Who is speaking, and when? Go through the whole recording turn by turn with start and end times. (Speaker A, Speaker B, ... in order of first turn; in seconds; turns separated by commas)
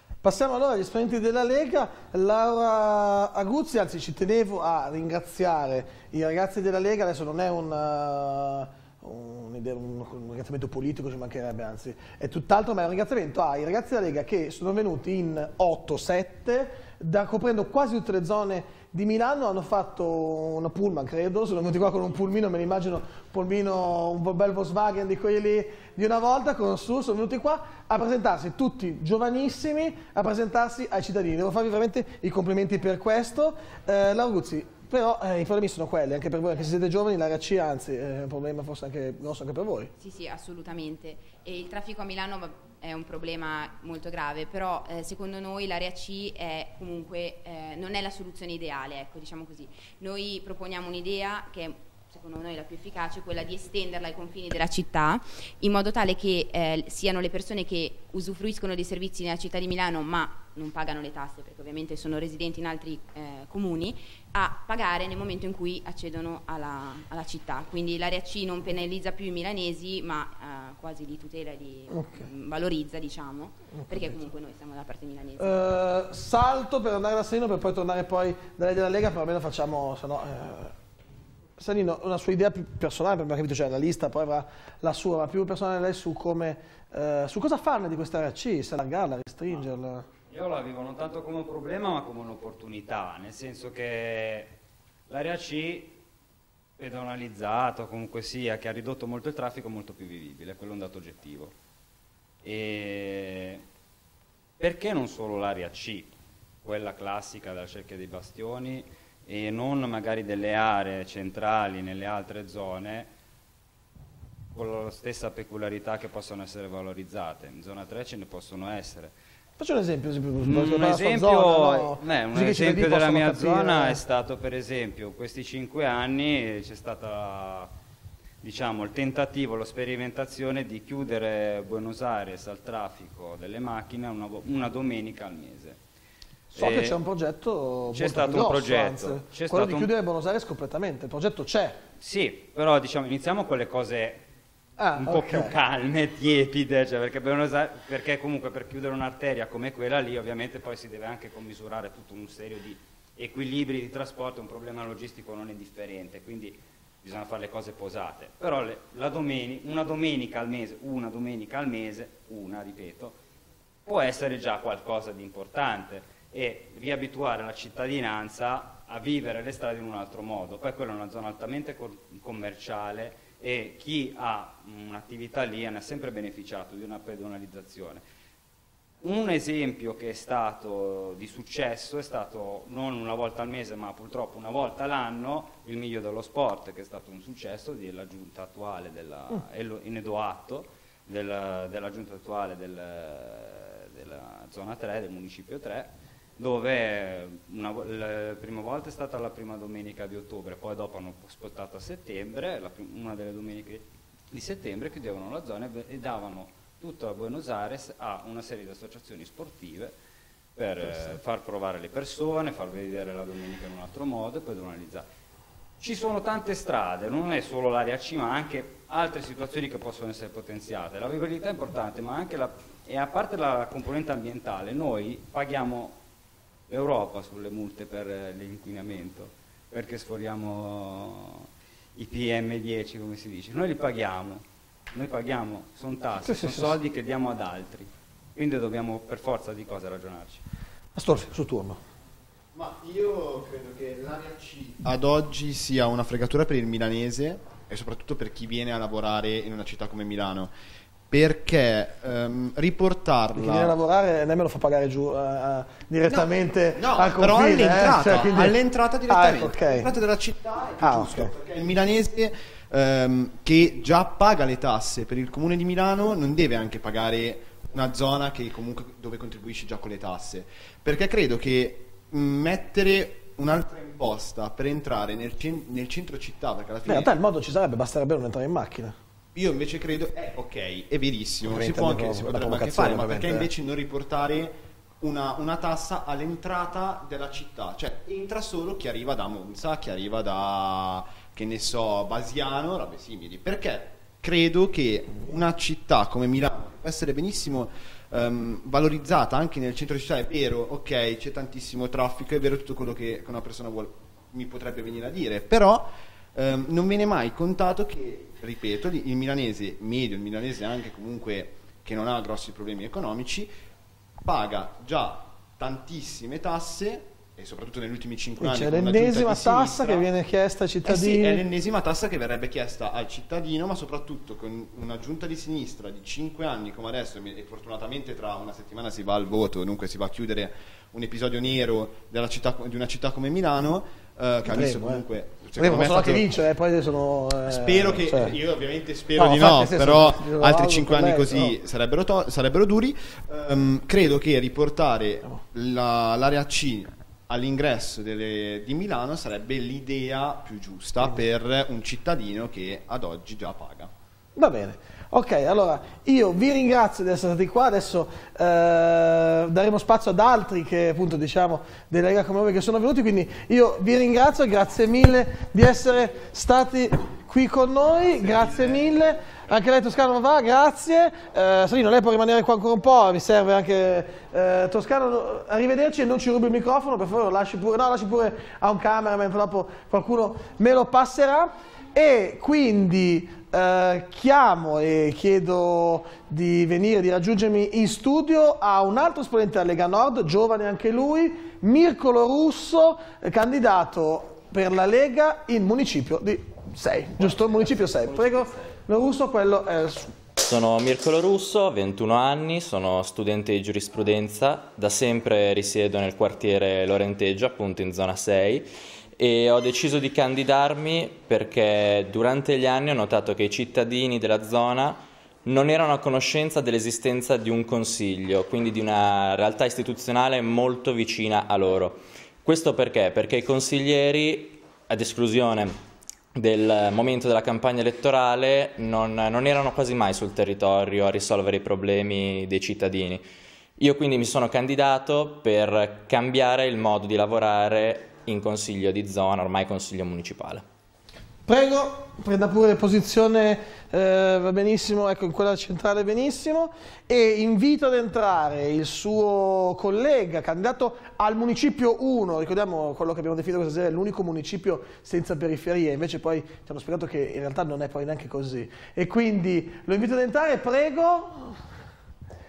Speaker A: 0.2-39.9, Speaker B: 40.0-75.6, Speaker A: 71.9-72.2, Speaker A: 73.7-74.2, Speaker A: 75.4-80.7, Speaker A: 81.6-90.0, Speaker C: 90.3-94.5, Speaker C: 95.1-96.0, Speaker C: 96.8-101.5, Speaker C: 102.4-103.6, Speaker C: 104.6-113.1, Speaker C: 114.5-119.1, Speaker A: 119.6-124.0, Speaker C: 120.4-127.7, Speaker C: 128.4-135.8, Speaker C: 136.5-137.0, Speaker A: 136.5-141.8, Speaker C: 137.9-139.9, Speaker C: 142.0-144.2, Speaker A: 144.8-145.6, Speaker C: 144.9-163.2, Speaker C: 163.8-178.0, Speaker C: 179.0-209.9, Speaker C: 210.6-215.1, Speaker C: 215.8-226.0, Speaker C: 226.7-240.4, Speaker A: 236.2-236.8, Speaker A: 240.9-241.8, Speaker D: 242.5-250.5, Speaker D: 251.1-253.7, Speaker A: 253.3-259.9, Speaker D: 256.1-277.1, Speaker A: 260.8-261.3, Speaker A: 276.9-278.9, Speaker D: 279.3-313.5, Speaker A: 281.4-283.5, Speaker D: 314.2-320.1, Speaker A: 318.4-321.4, Speaker D: 320.8-336.3, Speaker A: 334.4-338.4, Speaker D: 337.4-353.9, Speaker A: 339.1-341.6, Speaker A: 354.4-400.1, Speaker E: 397.2-398.6, Speaker E: 400.4-408.7, Speaker E: 409.2-425.7, Speaker E: 426.4-433.2, Speaker E: 433.8-440.6, Speaker A: 441.4-461.6